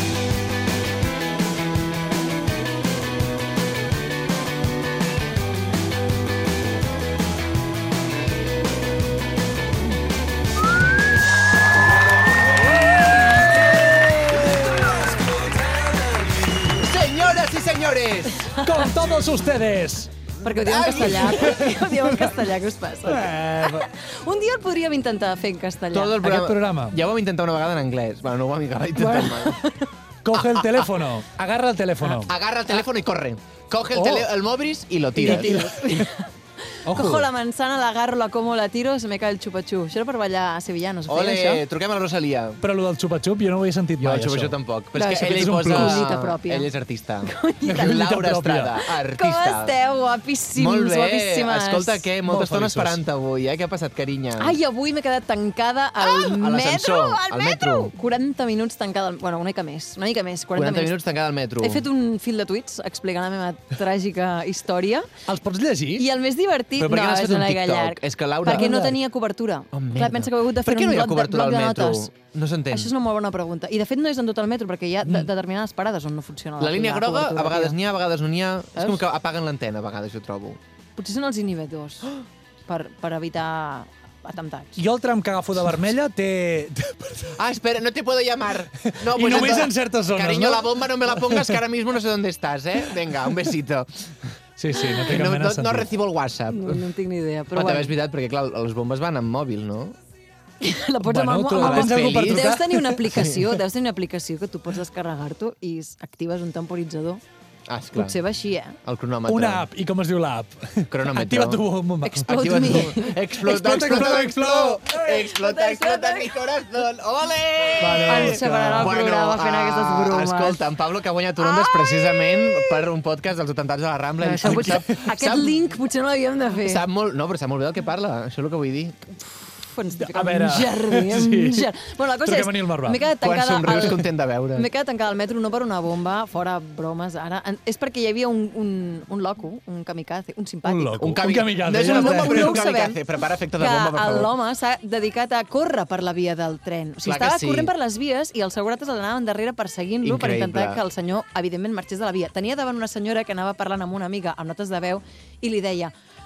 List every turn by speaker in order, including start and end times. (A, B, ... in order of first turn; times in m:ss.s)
0:16.7-0:18.5 A
0:18.4-0:19.0 B
0:18.6-0:20.1 C
0:20.4-0:26.2 B
0:20.6-0:21.5 A
0:21.2-0:22.3 C
0:23.0-0:23.9 C
0:25.9-0:29.6 A
0:26.2-0:27.0 C
0:29.0-0:29.9 B
0:30.2-0:32.3 C
0:30.3-0:31.0 A
0:32.2-0:35.5 A
0:33.9-0:34.3 C
0:35.2-0:41.6 B
0:35.2-0:36.0 C
0:36.8-0:37.3 C
0:41.1-0:42.6 A
0:42.6-0:44.6 C
0:44.0-0:49.7 A
0:44.9-0:46.7 B
0:45.1-0:46.0 C
0:47.2-0:48.0 B
0:47.6-0:48.7 C
0:48.9-0:52.0 B
0:50.5-0:54.5 A
0:52.2-0:53.0 C
0:54.4-1:01.0 B
0:56.0-0:57.9 A
1:00.5-1:01.8 A
1:01.6-1:05.1 B
1:05.3-1:06.0 C
1:06.0-1:12.1 B
1:06.8-1:07.5 C
1:07.2-1:08.7 A
1:08.4-1:09.0 C
1:09.7-1:12.9 A
1:12.7-1:17.8 B
1:16.6-1:20.6 A
1:18.8-1:19.0 B
1:21.0-1:24.8 B
1:24.8-1:27.4 C
1:27.3-1:33.9 A
1:28.9-1:31.4 C
1:34.6-1:35.9 C
1:34.8-1:35.1 B
1:35.0-1:36.8 A
1:36.5-1:37.9 B
1:37.5-1:40.0 A
1:40.6-1:47.2 B
1:41.0-1:43.4 C
1:41.6-1:42.5 A
1:47.7-1:48.2 A
1:47.9-1:48.8 B
1:48.8-1:49.6 A
1:49.3-1:55.1 C
1:50.9-1:51.6 A
1:52.0-1:53.3 B
1:52.2-2:05.7 A
1:55.1-1:56.3 B
1:57.8-1:59.0 C
1:58.0-2:00.6 B
2:01.4-2:02.8 B
2:04.2-2:06.8 B
2:04.4-2:04.9 C
2:06.6-2:09.0 A
2:09.6-2:14.0 B
2:10.0-2:11.7 C
2:12.2-2:13.0 C
2:13.2-2:14.7 A
2:14.6-2:21.2 B
2:20.6-2:22.6 C
2:21.0-2:24.3 A
2:21.8-2:23.0 B
2:23.6-2:35.9 B
2:27.0-2:27.7 A
2:30.0-2:30.8 A